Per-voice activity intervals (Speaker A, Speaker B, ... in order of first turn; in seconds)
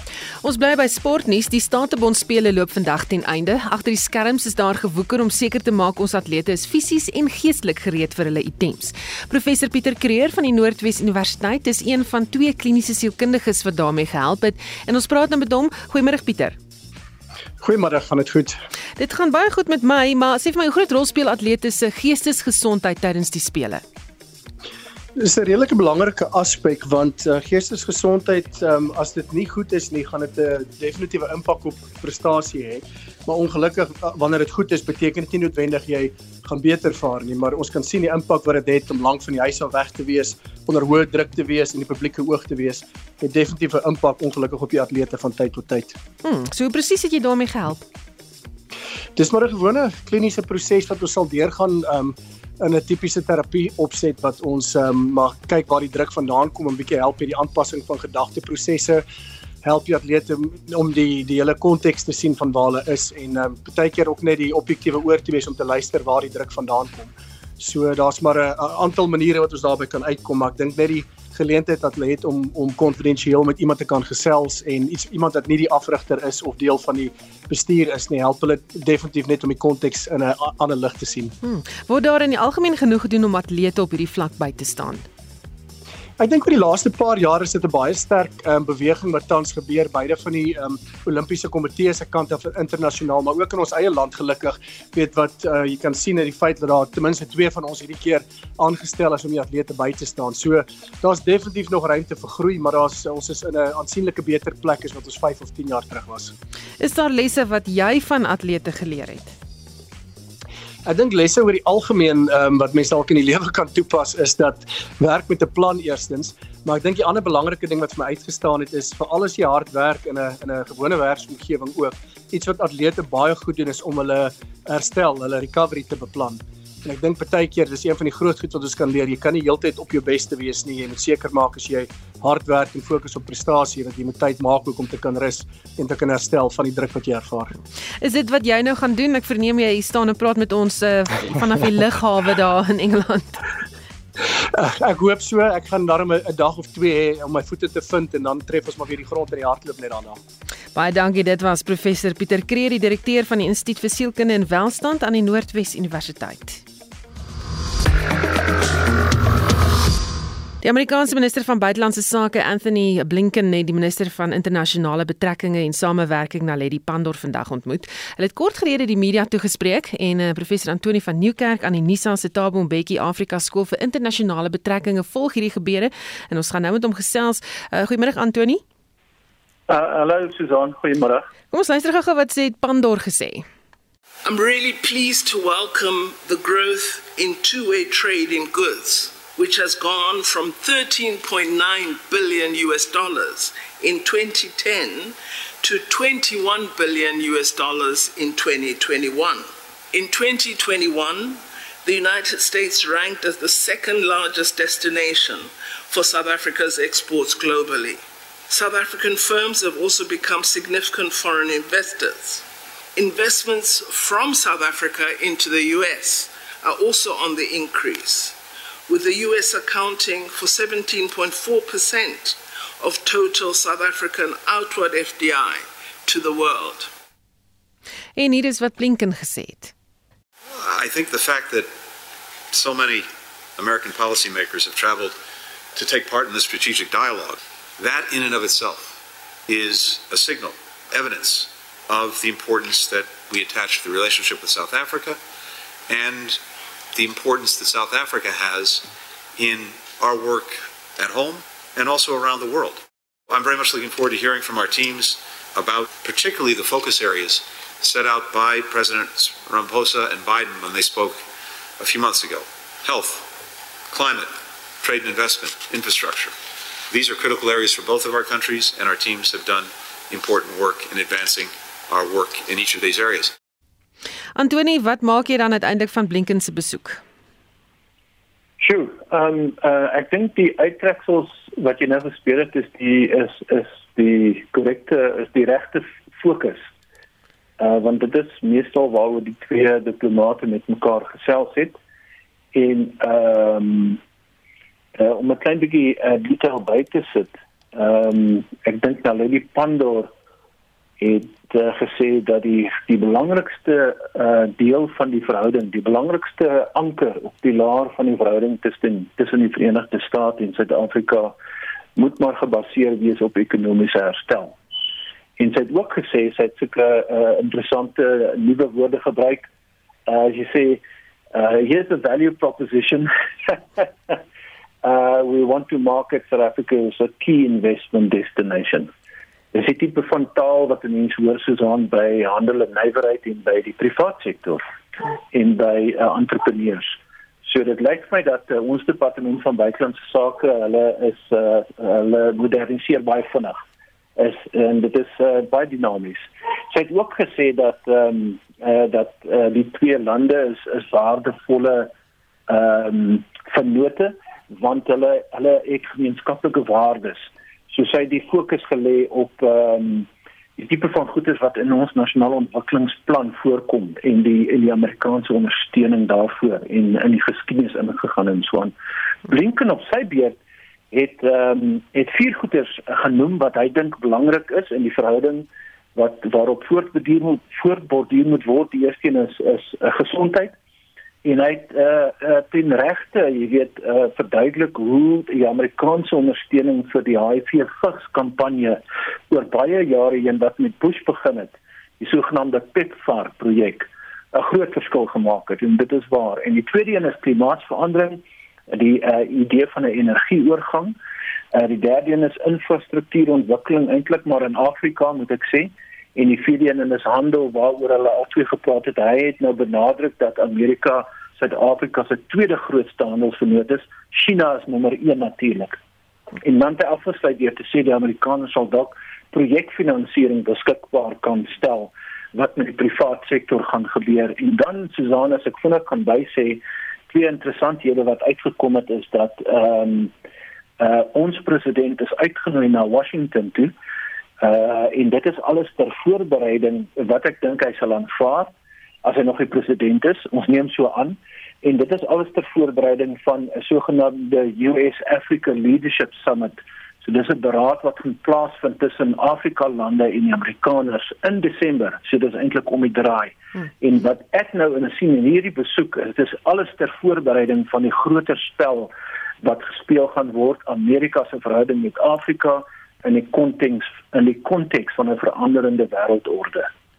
Speaker A: 0.4-16.6, 19.0-23.8, 46.2-47.8, 81.4-85.0, 106.8-109.3, 138.0-143.4, 150.8-156.6, 160.6-178.6, 181.5-183.4, 228.2-229.7, 274.4-277.0
Speaker B: 17.6-18.6, 25.2-46.0, 49.2-59.0, 59.6-81.3, 86.2-106.3, 110.9-137.5, 144.6-150.2
Speaker C: 179.7-181.3, 278.6-286.7, 287.6-291.8, 292.5-294.0, 295.0-300.1, 301.0-311.4, 312.0-314.6, 315.4-319.5, 320.1-320.8, 321.3-324.2, 324.8-328.9, 329.5-334.6, 335.3-343.6, 344.2-351.9, 352.5-368.7, 369.3-370.4, 370.9-380.5, 381.2-401.0, 401.5-415.8, 416.4-430.1, 430.8-433.7, 434.4-438.5, 439.0-466.7
Speaker D: 184.3-195.1, 195.7-208.0, 208.5-212.4, 213.0-218.3, 218.9-226.9
Speaker E: 230.6-231.7, 232.5-235.2, 235.8-245.2, 245.9-246.4, 246.9-261.2, 261.8-263.4, 263.9-266.3, 266.9-273.4